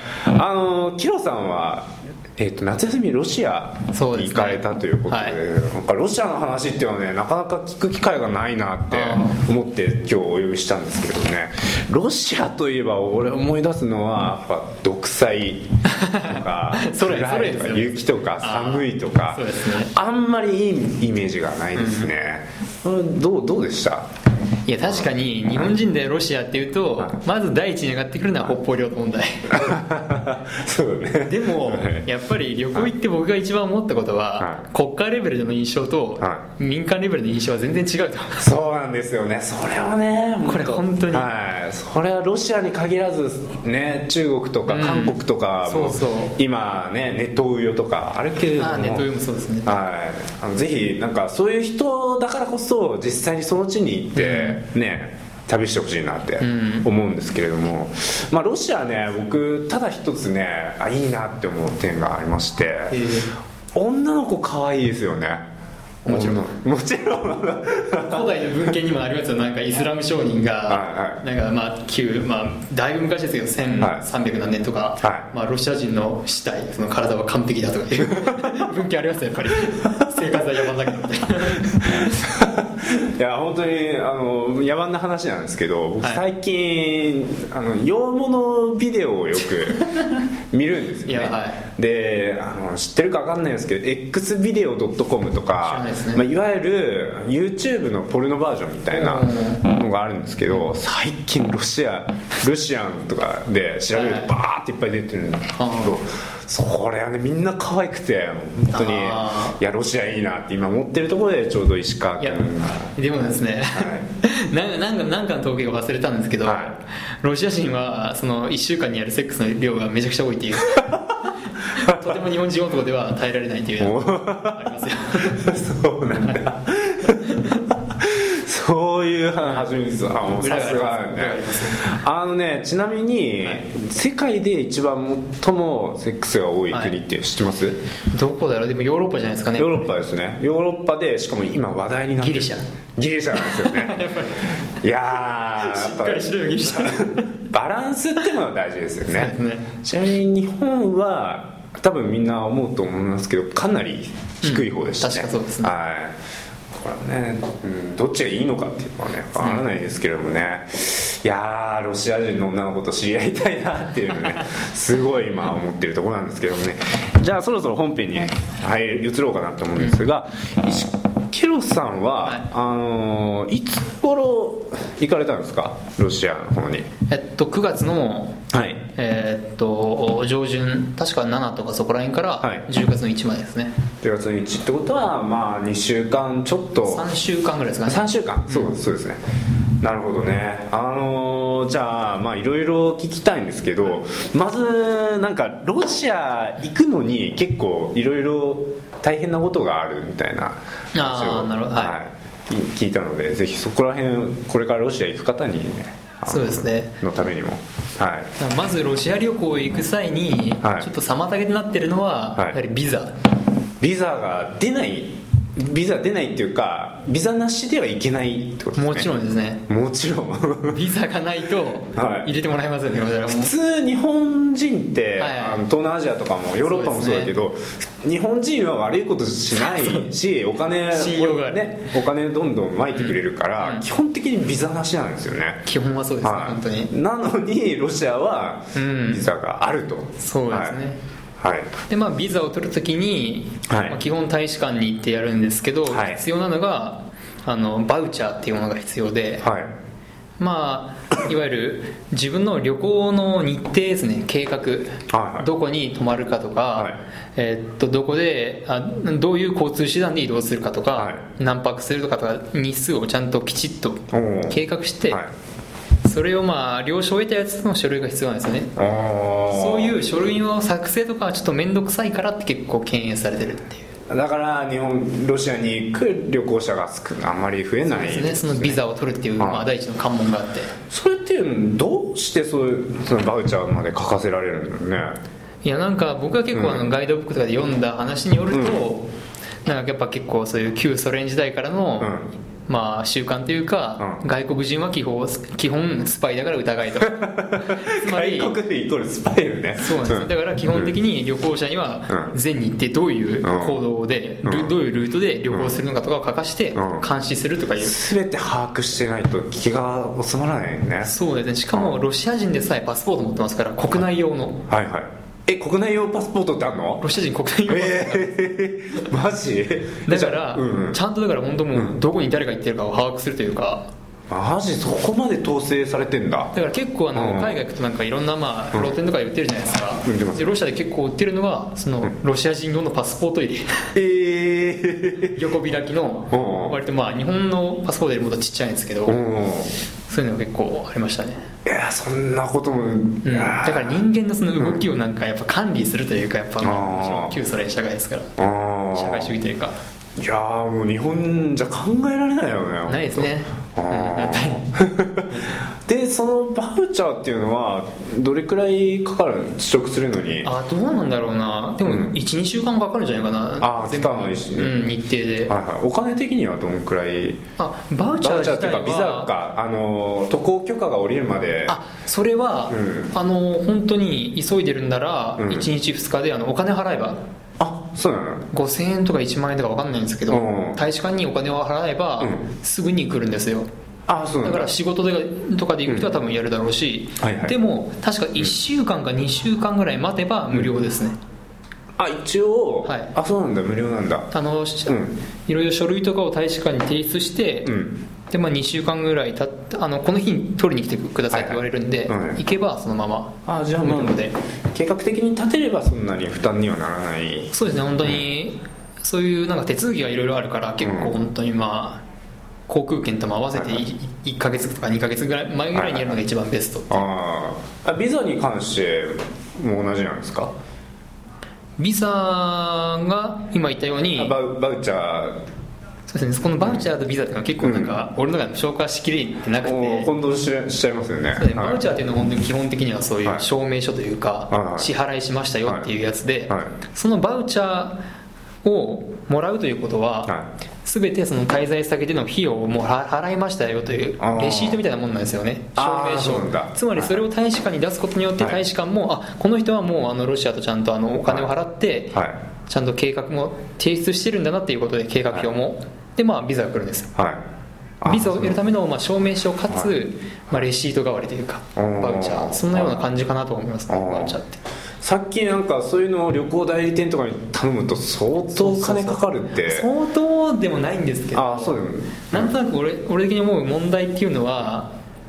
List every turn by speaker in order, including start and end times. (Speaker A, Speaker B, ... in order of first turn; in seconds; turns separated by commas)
Speaker A: 0.2-24.1, Speaker B: 3.9-5.4, Speaker B: 8.9-9.4, Speaker B: 15.9-19.9, Speaker B: 21.8-22.1, Speaker B: 24.7-29.8, Speaker A: 29.5-32.1, Speaker B: 31.2-38.5, Speaker A: 38.4-49.1, Speaker B: 40.5-41.3, Speaker B: 44.7-46.4, Speaker B: 48.6-49.7, Speaker A: 49.6-63.0, Speaker B: 54.1-54.6, Speaker B: 56.4-56.9, Speaker B: 62.9-63.3, Speaker A: 63.7-65.5, Speaker B: 66.0-66.5, Speaker A: 66.1-68.3, Speaker B: 68.0-82.3, Speaker A: 70.7-71.2, Speaker A: 75.0-75.3, Speaker A: 78.0-78.6, Speaker A: 80.1-80.4, Speaker A: 81.6-89.9, Speaker A: 90.5-112.9, Speaker B: 91.1-91.6, Speaker B: 95.6-96.2, Speaker B: 98.9-99.6, Speaker B: 103.9-104.3, Speaker B: 105.6-106.0, Speaker B: 108.7-109.6, Speaker B: 112.2-125.5, Speaker A: 113.7-114.0, Speaker A: 116.5-116.7, Speaker A: 123.8-137.8, Speaker B: 127.3-127.6, Speaker B: 130.3-131.9, Speaker B: 138.1-139.9, Speaker A: 139.6-144.1, Speaker B: 142.2-142.7, Speaker B: 143.3-144.6, Speaker A: 144.6-156.2, Speaker B: 145.6-147.3, Speaker B: 149.1-149.7, Speaker B: 154.4-155.7, Speaker A: 156.7-176.9, Speaker B: 159.4-159.7, Speaker B: 177.1-178.4, Speaker A: 178.5-178.8, Speaker B: 178.9-183.8, Speaker A: 184.0-187.1, Speaker B: 186.8-188.8, Speaker A: 187.9-189.2, Speaker A: 189.8-208.3, Speaker B: 200.9-202.0, Speaker B: 206.3-206.9, Speaker B: 208.4-213.1, Speaker A: 210.6-210.9, Speaker A: 213.8-219.1, Speaker B: 218.8-219.6, Speaker A: 219.7-220.8, Speaker B: 220.7-223.5, Speaker A: 221.9-222.3, Speaker A: 223.3-235.6, Speaker B: 225.2-225.6, Speaker B: 226.6-227.3, Speaker B: 229.6-230.1, Speaker B: 230.9-231.8, Speaker B: 233.0-233.8, Speaker B: 235.7-236.9, Speaker A: 236.2-240.8, Speaker B: 238.8-239.3, Speaker B: 240.2-241.0, Speaker A: 241.4-241.7, Speaker B: 241.9-249.5, Speaker A: 243.7-244.0, Speaker A: 245.9-246.2, Speaker A: 249.4-249.7, Speaker B: 250.4-265.2, Speaker A: 255.1-255.5, Speaker A: 261.0-261.2, Speaker A: 264.1-265.3, Speaker B: 266.1-268.8, Speaker A: 268.8-270.0, Speaker B: 269.5-273.9, Speaker A: 274.1-278.8, Speaker B: 277.9-280.7, Speaker A: 279.4-279.7, Speaker A: 280.9-285.2, Speaker B: 285.6-289.1, Speaker A: 286.5-286.9, Speaker A: 288.5-288.8, Speaker B: 289.6-292.2, Speaker A: 292.0-292.3, Speaker B: 292.7-298.5, Speaker A: 297.0-300.9, Speaker B: 299.8-308.0, Speaker A: 303.4-303.8, Speaker A: 304.4-304.7, Speaker A: 305.5-305.8, Speaker A: 306.8-307.1, Speaker A: 307.8-311.1, Speaker B: 311.1-314.6, Speaker A: 314.7-317.0, Speaker B: 317.0-318.3, Speaker A: 317.7-321.0, Speaker B: 320.1-323.9, Speaker A: 324.3-326.5, Speaker B: 326.5-333.9, Speaker A: 327.1-327.6, Speaker A: 330.1-330.5, Speaker A: 333.9-335.4, Speaker B: 335.3-339.2, Speaker A: 336.3-336.8, Speaker A: 339.1-339.7, Speaker B: 340.1-341.4, Speaker A: 341.6-344.0, Speaker B: 343.2-348.4, Speaker A: 346.6-347.3, Speaker A: 348.4-349.3, Speaker B: 348.9-349.8, Speaker A: 350.2-360.5, Speaker B: 352.9-354.6, Speaker B: 360.4-365.5, Speaker A: 361.9-362.1, Speaker A: 363.6-364.8, Speaker A: 365.5-367.4, Speaker B: 367.6-369.3, Speaker A: 368.2-371.8, Speaker B: 371.7-377.2, Speaker A: 372.7-373.1, Speaker A: 375.4-375.7, Speaker A: 377.6-378.5, Speaker B: 378.5-383.7, Speaker A: 380.3-380.8, Speaker A: 384.1-384.7, Speaker B: 384.4-391.2, Speaker A: 387.2-387.6, Speaker A: 392.0-394.3, Speaker B: 392.9-393.1, Speaker B: 394.3-397.7, Speaker A: 394.9-395.1, Speaker A: 397.6-398.0, Speaker B: 398.3-404.4, Speaker A: 401.3-402.4, Speaker A: 403.5-407.5, Speaker B: 407.5-412.0, Speaker A: 410.8-411.1, Speaker B: 412.7-417.1, Speaker A: 415.7-416.2, Speaker A: 416.9-420.5, Speaker B: 421.8-424.3, Speaker A: 424.1-425.4, Speaker B: 426.1-430.1, Speaker A: 427.6-427.9, Speaker A: 429.6-431.8, Speaker B: 431.4-438.0, Speaker A: 434.5-434.9, Speaker B: 438.6-457.1, Speaker A: 444.2-444.8, Speaker A: 445.8-447.2, Speaker A: 457.2-457.4, Speaker A: 458.0-458.6, Speaker B: 458.1-464.6, Speaker A: 461.8-463.1, Speaker A: 463.9-464.4, Speaker A: 465.0-469.9, Speaker B: 468.5-474.9, Speaker A: 471.3-472.5